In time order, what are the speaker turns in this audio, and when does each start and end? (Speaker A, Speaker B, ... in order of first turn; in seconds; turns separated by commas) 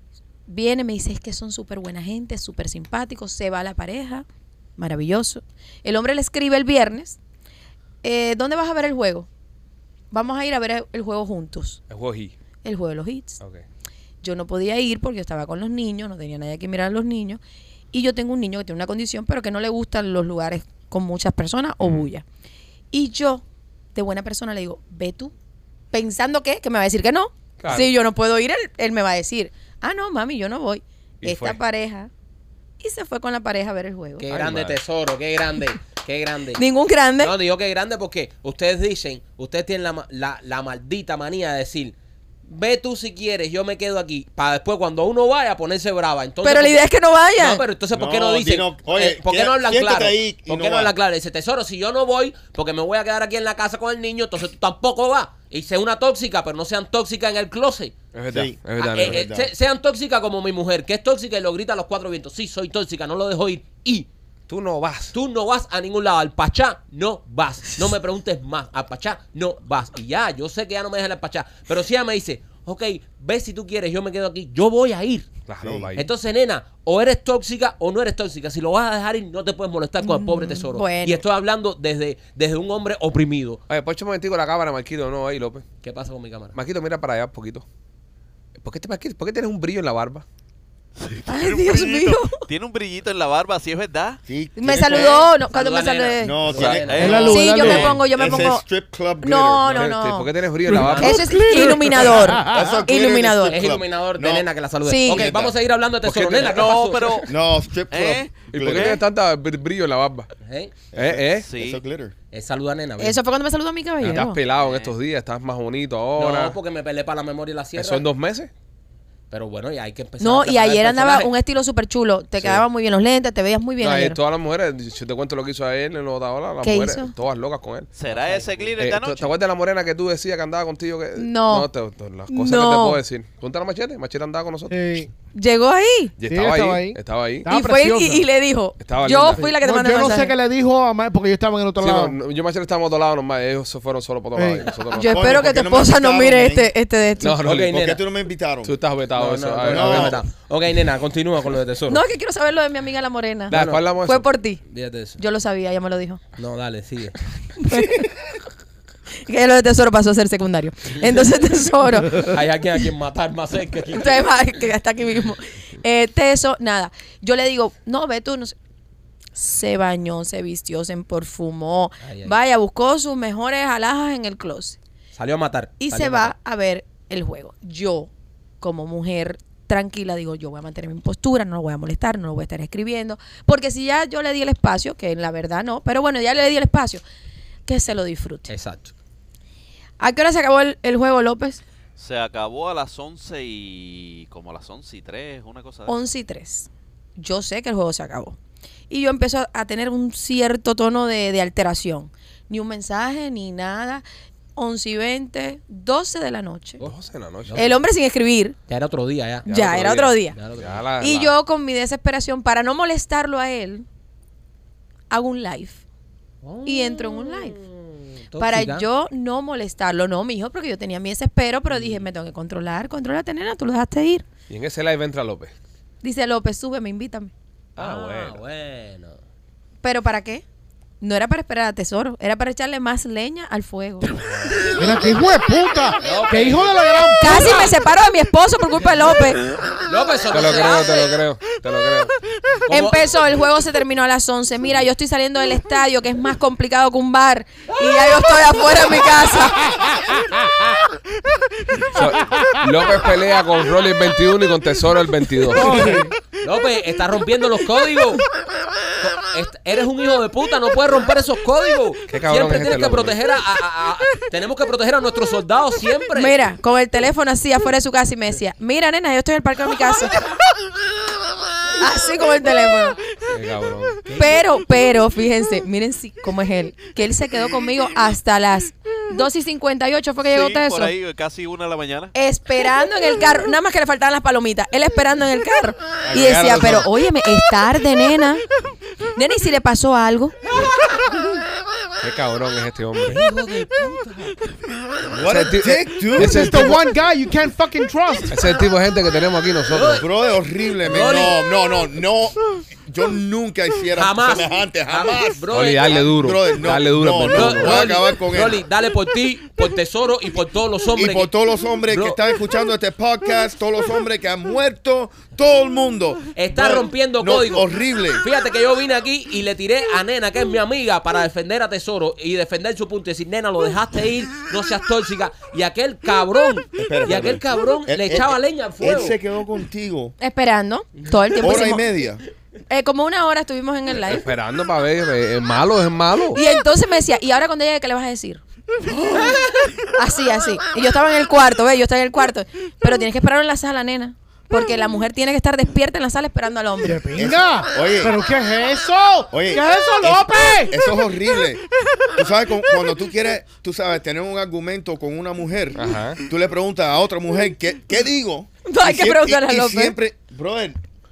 Speaker A: 0.5-4.2, Speaker A: 4.8-7.2, Speaker A: 8.0-9.3, Speaker A: 10.1-11.8, Speaker B: 11.9-12.3, Speaker A: 12.6-13.4, Speaker A: 14.2-17.4, Speaker A: 17.9-22.2, Speaker B: 21.8-22.1, Speaker A: 22.9-23.4, Speaker A: 23.9-25.3, Speaker A: 25.9-32.1, Speaker B: 27.6-27.9, Speaker B: 31.2-31.6, Speaker A: 32.8-34.3, Speaker C: 34.2-36.6, Speaker B: 34.3-34.8, Speaker A: 36.6-37.3, Speaker C: 37.2-41.9, Speaker C: 42.5-46.8, Speaker A: 46.4-47.6, Speaker C: 47.4-57.9, Speaker D: 47.9-50.9, Speaker B: 58.1-59.3, Speaker D: 58.3-59.5, Speaker C: 58.8-64.1, Speaker B: 64.5-65.1, Speaker C: 65.1-75.3, Speaker B: 75.5-76.0, Speaker D: 75.6-75.9, Speaker C: 76.0-83.6, Speaker A: 80.0-81.2, Speaker B: 83.7-85.6, Speaker C: 85.8-86.5, Speaker B: 86.5-87.6, Speaker B: 88.6-90.2, Speaker E: 91.0-94.2, Speaker A: 91.2-92.5, Speaker D: 94.2-95.2, Speaker A: 94.5-96.5, Speaker C: 95.3-97.8, Speaker D: 96.2-99.7, Speaker E: 96.5-97.4, Speaker F: 96.9-97.9, Speaker A: 97.1-98.6, Speaker A: 99.2-100.3, Speaker B: 99.6-101.3, Speaker F: 100.7-102.8, Speaker C: 100.7-101.2, Speaker A: 101.0-103.6, Speaker D: 102.3-104.5, Speaker C: 103.5-107.2, Speaker A: 104.8-105.3, Speaker D: 105.1-105.5, Speaker B: 106.0-107.3, Speaker E: 106.4-107.3, Speaker D: 107.3-109.0, Speaker E: 107.9-109.0, Speaker B: 108.5-110.3, Speaker C: 110.4-110.7, Speaker D: 110.9-112.1, Speaker B: 110.9-111.5, Speaker E: 111.3-111.8, Speaker C: 112.3-113.2, Speaker A: 113.0-114.4, Speaker B: 114.0-116.5, Speaker E: 114.6-114.9, Speaker C: 116.2-118.0, Speaker B: 117.8-118.5, Speaker C: 119.3-121.3, Speaker A: 120.2-124.2, Speaker B: 122.4-122.6, Speaker B: 123.8-127.9, Speaker A: 126.6-127.1, Speaker E: 127.9-129.3, Speaker C: 128.1-128.7, Speaker B: 128.8-135.0, Speaker A: 131.2-131.7, Speaker A: 132.3-133.0, Speaker F: 134.7-135.1, Speaker A: 135.3-136.1, Speaker B: 136.2-137.5, Speaker F: 136.2-138.3, Speaker A: 137.5-140.3, Speaker B: 138.8-139.4, Speaker F: 139.3-142.2, Speaker B: 141.8-145.3, Speaker F: 144.3-144.7, Speaker A: 144.9-147.4, Speaker D: 145.1-146.7, Speaker B: 147.2-147.8, Speaker C: 147.4-148.0, Speaker D: 147.4-148.8, Speaker B: 148.6-150.2, Speaker C: 149.1-152.0, Speaker D: 149.7-150.2, Speaker A: 151.9-154.6, Speaker B: 153.5-154.3, Speaker C: 153.5-153.9, Speaker C: 154.7-155.2, Speaker A: 155.2-156.2, Speaker C: 156.4-157.2, Speaker A: 157.6-158.1, Speaker A: 159.2-162.3, Speaker C: 162.1-164.4, Speaker A: 163.9-168.5, Speaker A: 169.3-174.8, Speaker C: 172.0-172.3, Speaker C: 175.1-176.3, Speaker A: 175.8-178.1, Speaker A: 178.6-187.0, Speaker A: 187.7-188.5, Speaker C: 188.5-188.9, Speaker A: 190.0-191.6, Speaker E: 192.0-196.0, Speaker A: 195.9-198.4, Speaker A: 198.9-204.0, Speaker A: 204.6-206.8, Speaker C: 206.8-207.8, Speaker B: 206.8-207.6, Speaker A: 207.6-208.6, Speaker C: 208.7-209.5, Speaker A: 209.4-210.3, Speaker B: 209.5-211.3, Speaker C: 210.3-210.8, Speaker A: 211.0-213.8, Speaker A: 215.1-215.8, Speaker C: 216.4-218.8, Speaker A: 216.6-217.6, Speaker A: 218.4-224.2, Speaker C: 221.7-222.0, Speaker B: 224.5-225.5, Speaker A: 226.0-227.3, Speaker B: 227.8-228.4, Speaker C: 227.8-229.2, Speaker A: 229.8-230.4, Speaker A: 231.0-234.1, Speaker F: 234.7-237.8, Speaker C: 236.0-236.7, Speaker A: 237.2-239.4, Speaker C: 239.8-241.1, Speaker B: 240.3-242.1, Speaker C: 242.6-243.0, Speaker A: 242.7-249.8, Speaker F: 249.9-250.3, Speaker B: 251.9-256.0, Speaker F: 255.5-256.1, Speaker C: 256.4-258.2, Speaker C: 259.0-266.4, Speaker B: 262.1-263.2, Speaker A: 266.1-270.2, Speaker A: 271.8-273.0, Speaker B: 273.3-274.0, Speaker C: 274.0-274.4, Speaker A: 274.1-280.9, Speaker E: 280.2-282.1, Speaker A: 282.1-288.4, Speaker B: 286.1-286.9, Speaker A: 289.1-290.3, Speaker B: 292.0-293.2, Speaker C: 293.0-294.4, Speaker D: 295.1-296.8, Speaker B: 295.1-296.8, Speaker F: 296.2-298.4, Speaker B: 298.3-300.0, Speaker C: 299.7-300.1, Speaker D: 299.9-308.6, Speaker C: 300.8-301.4, Speaker C: 303.9-306.1, Speaker B: 305.5-308.0, Speaker C: 307.3-311.3, Speaker D: 310.9-318.2, Speaker C: 311.9-312.2, Speaker C: 316.4-329.2, Speaker D: 326.8-330.1, Speaker A: 330.2-331.9, Speaker D: 331.4-332.2, Speaker A: 332.7-334.2, Speaker B: 334.1-336.4, Speaker A: 336.3-338.4, Speaker A: 339.9-347.0, Speaker F: 346.8-350.8, Speaker D: 347.1-348.1, Speaker D: 349.3-360.8, Speaker B: 355.8-356.2, Speaker A: 358.6-359.9